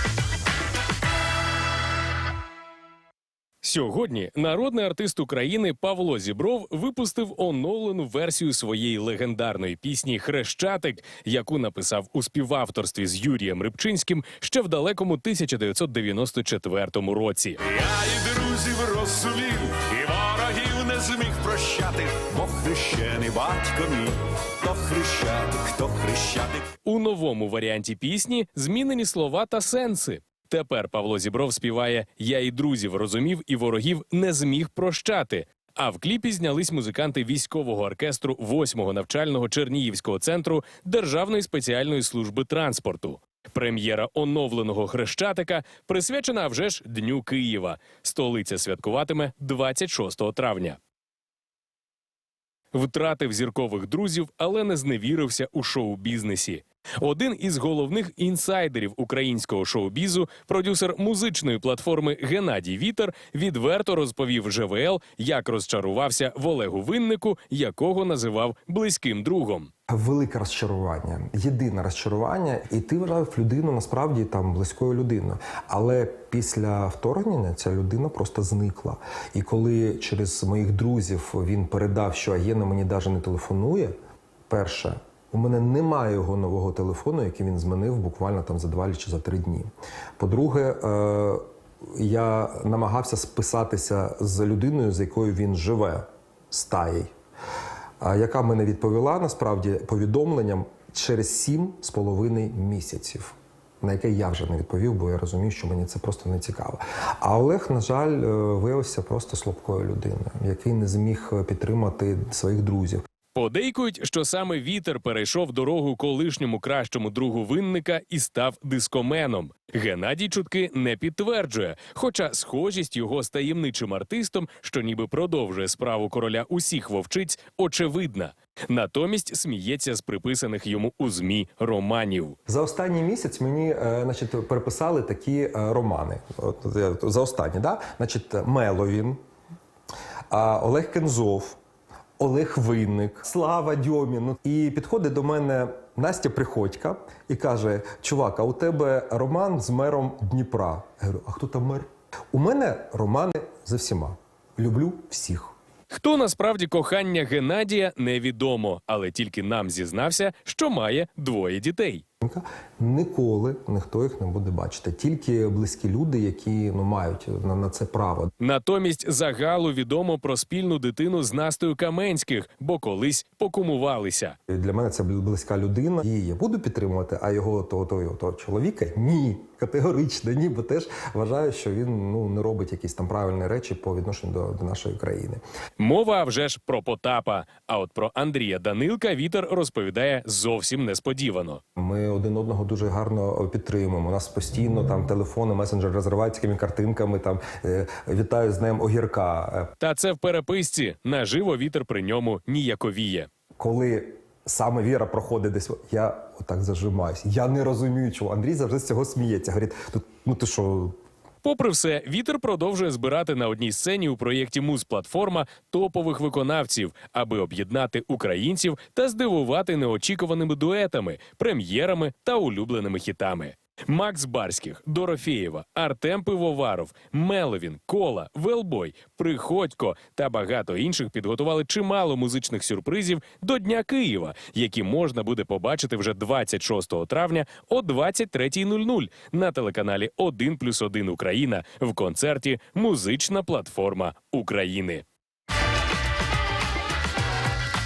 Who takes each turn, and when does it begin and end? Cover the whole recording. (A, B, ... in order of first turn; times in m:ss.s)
0:03.6-0:17.6 A
0:17.7-0:26.7 B
0:26.8-0:50.8 A
0:52.7-1:09.7 A
1:09.9-1:23.9 C
1:24.5-1:37.1 C
1:38.0-1:53.0 C
1:53.3-2:12.4 A
2:12.5-2:19.2 C
2:20.3-2:21.6 C
2:22.2-2:35.5 C
2:35.9-2:42.0 A
2:42.2-2:48.3 C
2:48.4-2:54.4 A
2:54.5-3:05.4 C
3:05.8-3:11.6 A
3:11.8-3:19.7 C
3:19.8-3:23.3 A
3:23.6-3:31.0 C
3:31.4-4:05.0 A